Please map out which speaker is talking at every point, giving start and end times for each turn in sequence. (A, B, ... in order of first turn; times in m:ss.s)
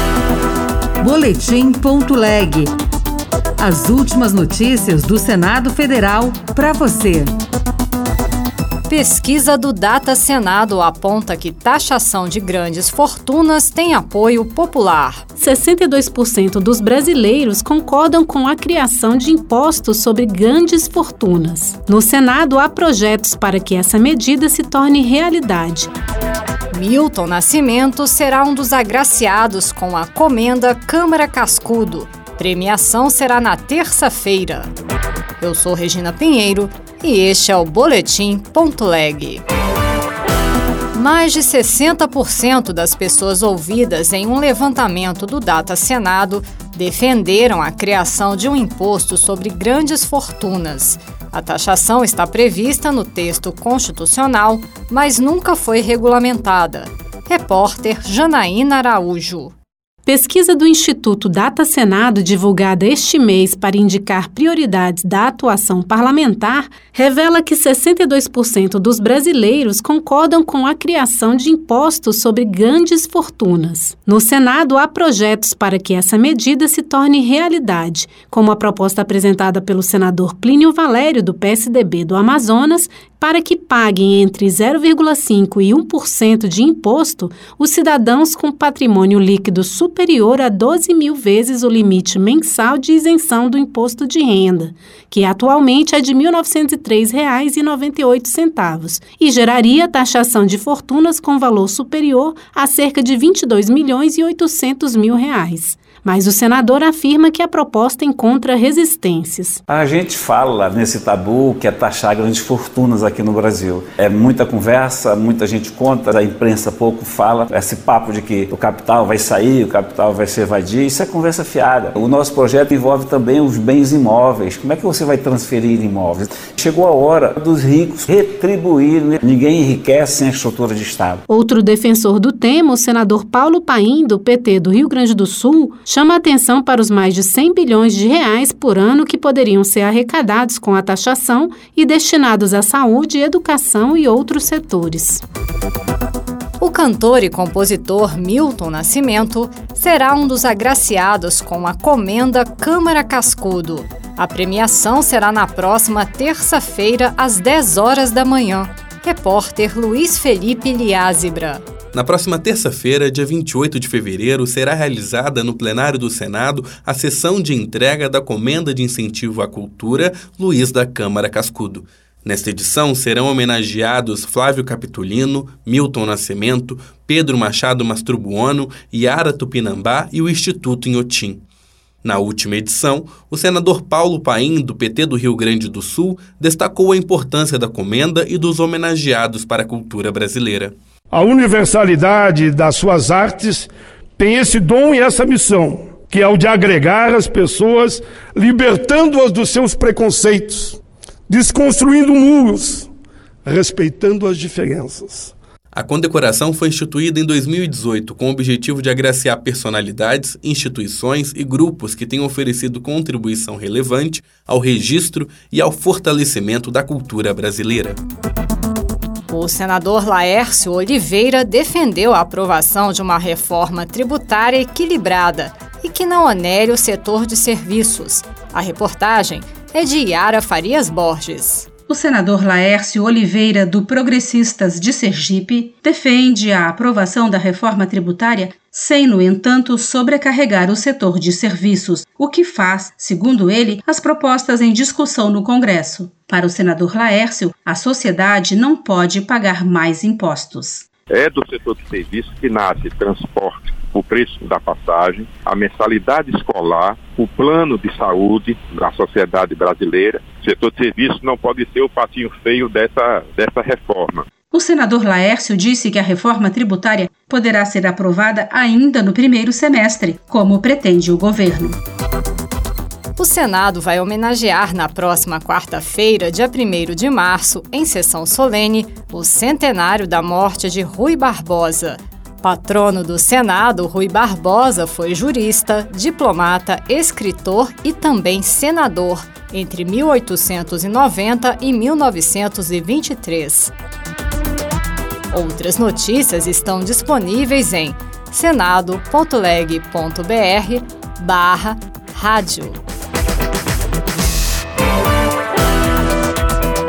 0:01.0-0:02.7 A
0:03.6-0:07.3 A
0:08.9-0:15.2 B
0:15.4-0:25.9 C
0:26.7-0:34.7 B
0:35.4-0:39.4 B
0:40.9-0:59.5 B
1:00.0-1:49.6 C
1:49.7-2:11.2 D
2:11.3-2:25.2 C
2:26.6-2:41.6 B
2:41.9-3:01.4 E
3:02.0-3:10.7 E
3:11.2-3:13.6 F
3:14.2-3:20.7 F
3:21.3-3:22.8 F
3:23.4-3:25.2 F
3:25.7-3:38.0 E
3:39.3-3:51.7 B
3:51.9-4:10.8 G
4:11.1-4:24.3 H
4:24.5-4:31.8 G
4:33.2-4:53.7 B
4:55.3-5:02.8 B